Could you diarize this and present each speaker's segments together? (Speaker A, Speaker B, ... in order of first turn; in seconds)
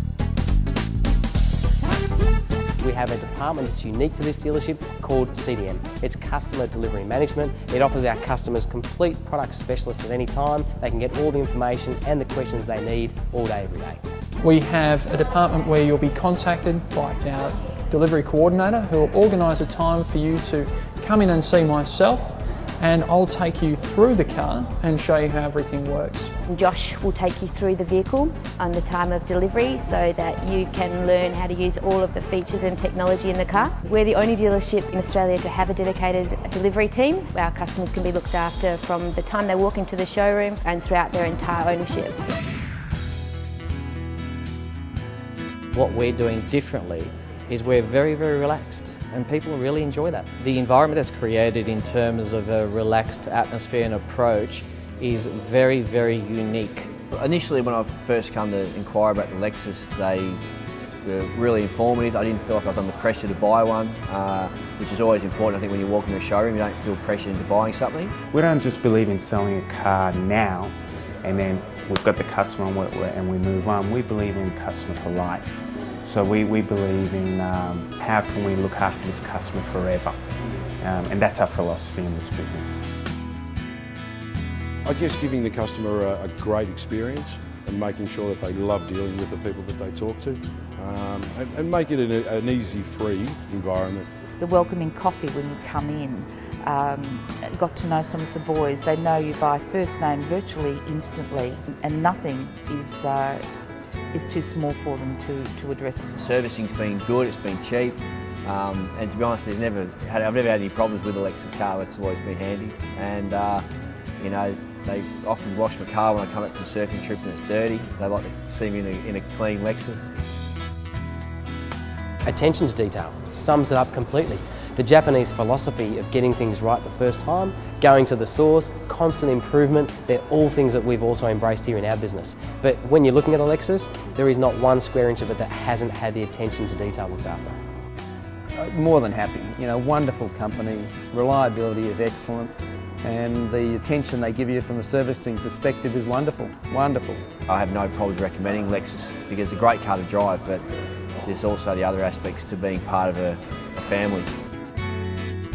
Speaker A: 2.8-14.0, 122.3-137.6
Speaker B: 14.4-26.3
Speaker C: 26.5-42.2
Speaker D: 45.7-56.9
Speaker E: 57.1-60.4, 61.0-68.1, 106.1-113.6, 114.2-120.1, 147.5-150.6, 151.2-154.3
Speaker F: 68.3-80.2, 80.8-82.8
Speaker G: 84.8-94.1
Speaker H: 94.4-103.5, 104.1-106.1
Speaker I: 138.5-147.3